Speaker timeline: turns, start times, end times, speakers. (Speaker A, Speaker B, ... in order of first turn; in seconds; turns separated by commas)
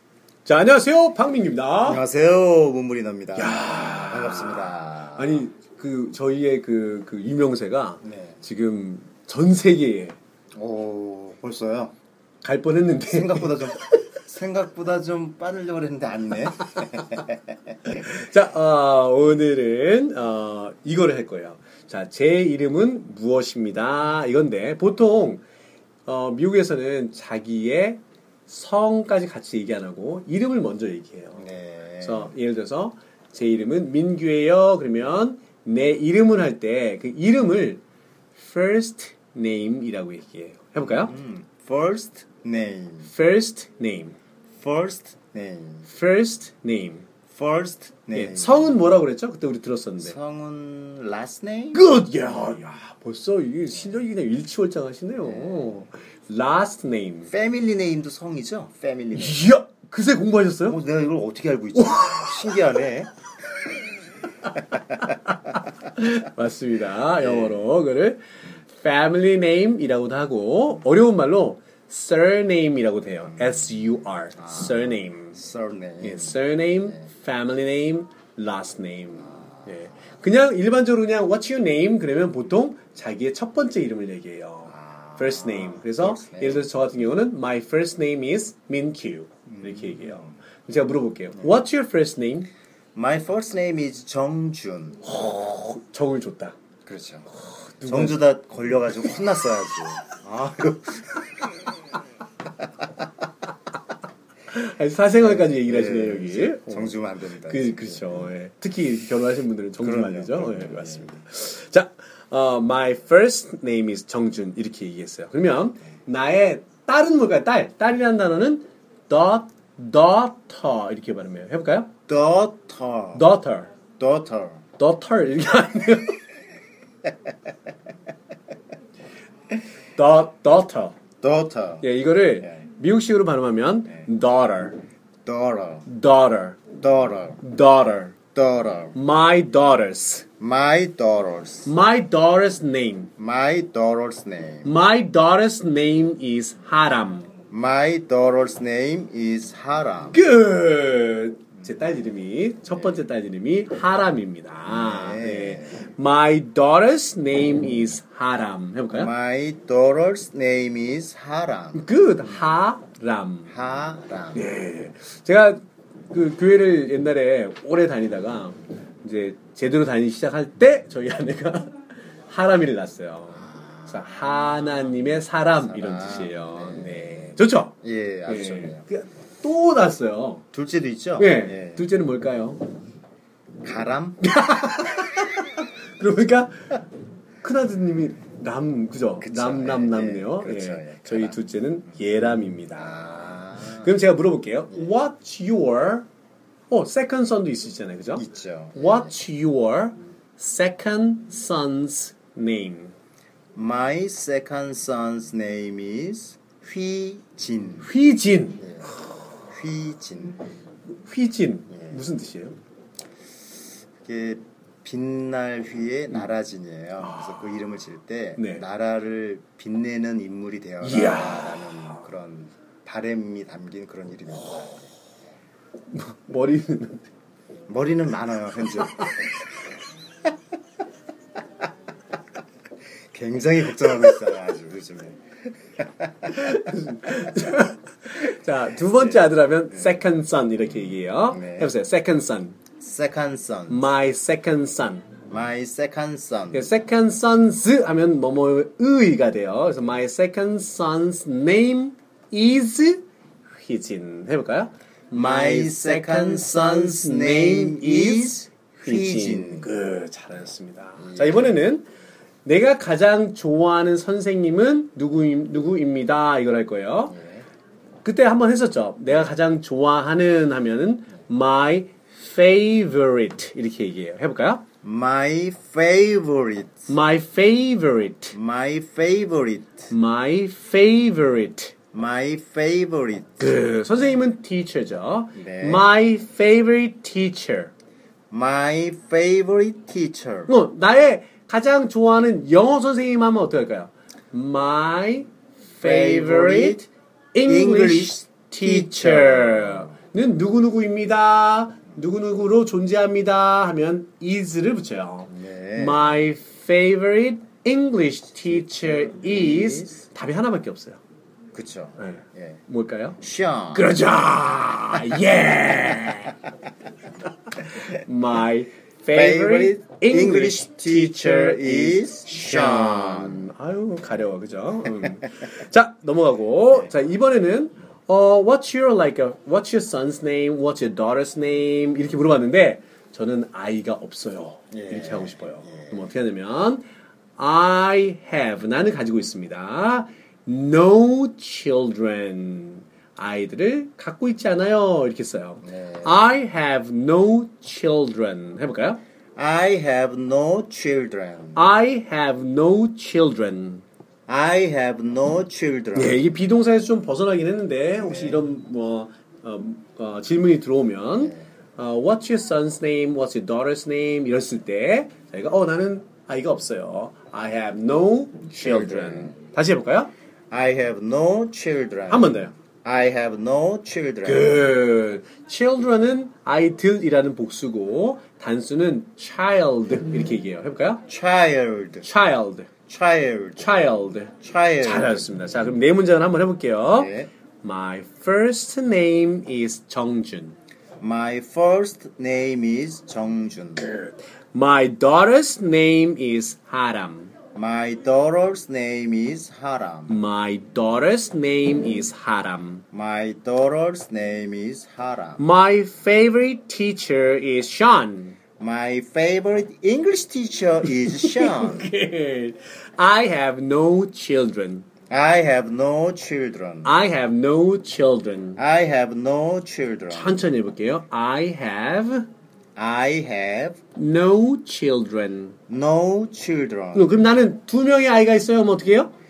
Speaker A: 0.4-2.0, Speaker B: 1.8-5.5, Speaker A: 3.3-10.2, Speaker B: 8.0-8.4, Speaker B: 10.5-11.9, Speaker A: 12.4-14.0, Speaker B: 13.0-17.5, Speaker A: 17.9-25.4, Speaker A: 26.1-31.5, Speaker B: 31.4-32.3, Speaker A: 32.0-37.8, Speaker A: 38.3-41.1, Speaker B: 40.8-43.1, Speaker A: 43.0-44.1, Speaker B: 44.5-45.9, Speaker A: 45.9-47.0, Speaker B: 47.3-48.8, Speaker A: 48.1-50.1, Speaker B: 50.0-51.9, Speaker A: 51.7-57.3, Speaker B: 55.2-55.8, Speaker B: 57.3-59.5, Speaker A: 59.1-60.8, Speaker B: 60.6-63.1, Speaker A: 61.8-62.6, Speaker A: 64.9-75.4, Speaker B: 67.2-67.6, Speaker B: 74.4-76.4, Speaker A: 76.0-92.5, Speaker B: 79.3-79.7, Speaker B: 84.7-86.7, Speaker B: 89.5-90.3, Speaker B: 91.4-91.6, Speaker B: 92.9-95.0, Speaker A: 95.0-96.5, Speaker B: 96.8-97.3, Speaker A: 97.5-98.2, Speaker B: 97.8-101.2, Speaker A: 104.5-121.9, Speaker B: 105.2-108.3, Speaker B: 109.8-111.2, Speaker B: 122.1-123.3, Speaker A: 123.1-123.7, Speaker B: 124.0-124.6, Speaker A: 124.8-126.2, Speaker A: 129.9-130.9, Speaker B: 131.2-131.9, Speaker A: 131.8-134.8, Speaker B: 135.2-135.8, Speaker A: 135.9-136.6, Speaker B: 136.8-137.4, Speaker A: 137.4-138.2, Speaker B: 138.3-138.9, Speaker A: 138.9-140.2, Speaker B: 140.4-141.7, Speaker A: 141.6-143.1, Speaker B: 143.2-144.7, Speaker A: 144.6-147.3, Speaker B: 147.5-150.2, Speaker A: 150.1-159.1, Speaker B: 154.7-155.8, Speaker B: 158.9-162.4, Speaker A: 161.7-163.6, Speaker B: 163.5-164.5, Speaker A: 164.3-171.8, Speaker A: 172.3-177.7, Speaker B: 173.5-174.6, Speaker B: 175.5-178.9, Speaker A: 178.2-180.4, Speaker B: 180.5-181.9, Speaker A: 181.2-182.7, Speaker B: 183.6-184.2, Speaker A: 184.2-186.8, Speaker A: 187.4-196.1, Speaker B: 189.2-191.4, Speaker B: 192.7-194.0, Speaker A: 196.7-202.9, Speaker B: 198.1-199.1, Speaker B: 203.5-207.9, Speaker A: 207.8-208.7, Speaker B: 208.6-210.4, Speaker A: 211.0-212.6, Speaker B: 211.7-212.1, Speaker B: 214.0-224.8, Speaker A: 217.0-217.5, Speaker A: 218.4-218.6, Speaker A: 220.8-221.9, Speaker A: 225.9-227.1, Speaker B: 227.7-229.2, Speaker B: 233.1-235.2, Speaker B: 235.8-236.7, Speaker A: 236.3-242.6, Speaker B: 238.9-240.0, Speaker B: 241.3-241.7, Speaker B: 242.8-243.9, Speaker A: 243.7-245.1, Speaker B: 245.3-246.7, Speaker A: 246.5-261.9, Speaker B: 255.1-259.7, Speaker B: 261.0-261.6, Speaker A: 262.4-267.2, Speaker B: 267.1-267.4, Speaker A: 268.0-274.6, Speaker B: 274.8-276.9, Speaker A: 276.9-278.4, Speaker B: 278.3-279.9, Speaker A: 279.9-281.7, Speaker B: 281.9-283.6, Speaker A: 283.4-287.7, Speaker B: 285.4-285.9, Speaker B: 288.3-290.5, Speaker A: 290.5-311.0, Speaker B: 295.8-296.8, Speaker B: 297.4-299.9, Speaker B: 305.3-306.2, Speaker B: 308.4-310.0, Speaker B: 311.5-312.6, Speaker A: 312.0-313.2, Speaker B: 313.2-313.9, Speaker A: 313.7-316.4, Speaker A: 317.6-336.8, Speaker B: 319.1-323.5, Speaker B: 334.7-336.0, Speaker A: 337.4-349.0, Speaker B: 345.6-346.3, Speaker B: 349.4-351.7, Speaker A: 351.6-353.8, Speaker B: 354.3-356.3, Speaker A: 355.9-370.1, Speaker B: 358.0-358.4, Speaker B: 368.5-369.3, Speaker B: 370.5-374.6, Speaker A: 372.1-372.5, Speaker A: 374.2-381.0, Speaker B: 381.1-382.1, Speaker A: 382.0-382.7, Speaker B: 382.9-385.3, Speaker A: 383.6-390.6, Speaker B: 386.9-387.3, Speaker B: 391.0-394.0, Speaker A: 393.9-397.3, Speaker B: 397.5-400.2, Speaker A: 400.1-402.8, Speaker B: 402.9-405.4, Speaker A: 405.4-408.4, Speaker B: 408.6-411.9, Speaker A: 410.8-414.9, Speaker B: 415.1-416.9, Speaker A: 416.8-418.6, Speaker B: 418.6-420.5, Speaker A: 420.1-422.3, Speaker B: 422.8-423.8, Speaker A: 423.9-425.6, Speaker B: 425.7-427.1, Speaker A: 426.9-429.1